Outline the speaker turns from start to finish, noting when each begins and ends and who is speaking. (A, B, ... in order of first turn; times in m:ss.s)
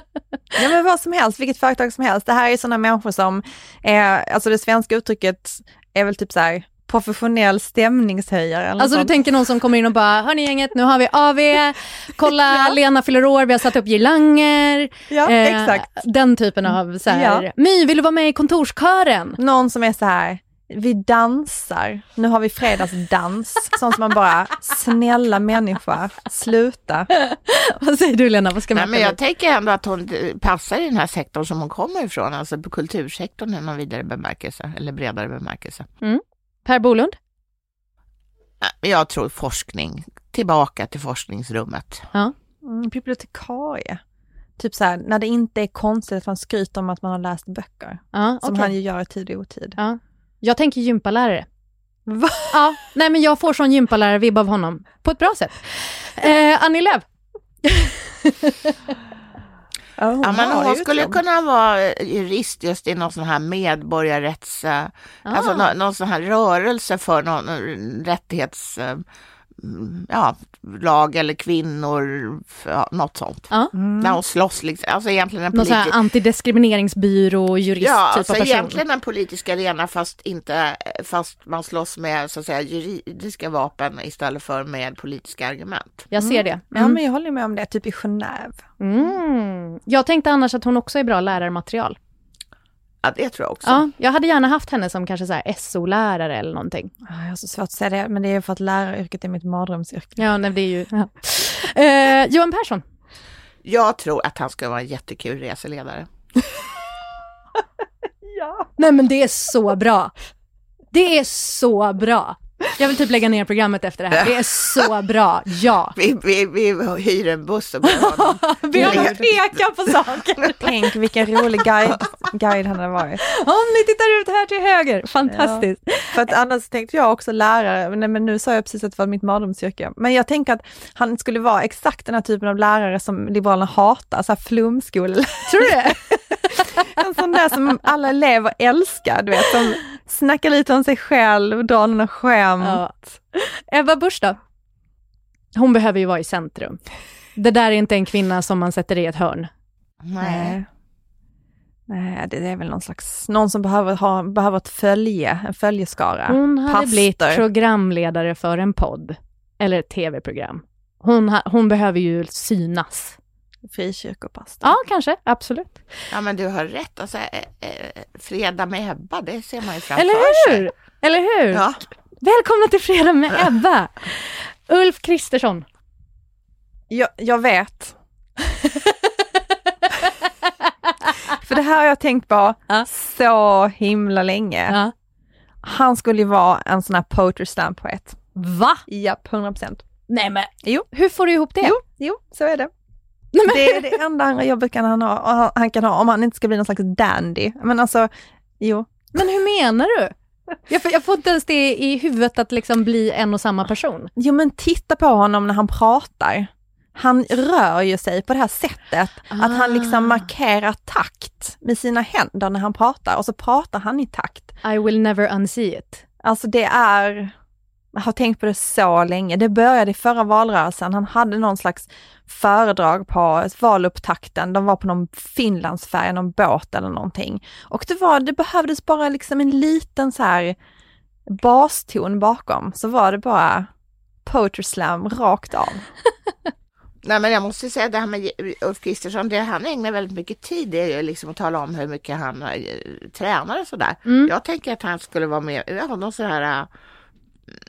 0:00.6-0:09.2 A
0:08.8-0:19.4 B
0:12.5-0:12.7 A
0:15.1-0:16.0 A
0:16.7-0:17.4 A
0:19.4-0:27.1 A
0:27.1-0:29.2 B
0:28.7-0:35.9 C
0:36.0-0:37.2 B
0:38.6-0:42.1 C
0:42.6-0:44.0 A
0:44.6-0:49.8 A
0:48.1-0:48.7 B
0:49.8-0:51.5 B
0:52.1-0:52.6 A
0:52.5-0:57.0 B
0:57.7-0:58.7 B
1:00.0-1:01.2 A
1:00.2-1:09.0 C
1:05.3-1:05.7 B
1:09.6-1:16.0 C
1:13.8-1:14.2 A
1:15.5-1:18.8 B
1:17.8-1:26.1 C
1:26.1-1:27.0 B
1:26.2-1:28.6 A
1:28.8-1:32.0 B
1:33.0-1:33.8 C
1:33.6-1:36.9 B
1:37.1-1:40.3 A
1:40.2-1:42.8 B
1:43.6-1:46.1 C
1:48.3-1:48.7 A
1:48.8-1:50.1 B
1:50.9-1:56.0 B
1:56.0-1:59.2 C
1:57.9-2:00.6 B
1:58.7-1:59.3 A
2:00.6-2:03.2 A
2:03.2-2:06.2 B
2:05.3-2:22.8 A
2:15.5-2:16.2 B
2:22.6-2:24.4 B
2:25.6-2:26.8 B
2:27.4-2:29.5 B
2:30.0-2:30.6 C
2:30.2-2:30.7 A
2:31.9-2:37.4 A
2:36.3-2:43.2 B
2:43.7-2:44.7 A
2:44.6-2:45.9 B
2:46.1-2:50.7 C
2:50.0-2:51.6 B
2:51.5-2:51.8 C
2:52.2-2:55.6 B
2:56.9-2:58.0 A
3:01.4-3:04.8 A
3:05.6-3:08.2 A
3:08.4-3:08.9 B
3:08.9-3:09.8 A
3:10.1-3:11.8 B
3:11.6-3:12.7 A
3:13.3-3:14.0 B
3:13.4-3:19.0 A
3:19.1-3:20.1 B
3:20.7-3:24.1 B
3:24.2-3:34.5 A
3:29.3-3:30.2 B
3:34.6-3:36.0 B
3:36.2-3:37.3 A
3:37.9-3:50.6 A
3:51.3-3:53.7 A
3:54.2-3:55.9 A
3:57.0-4:06.7 C
4:04.1-4:04.3 B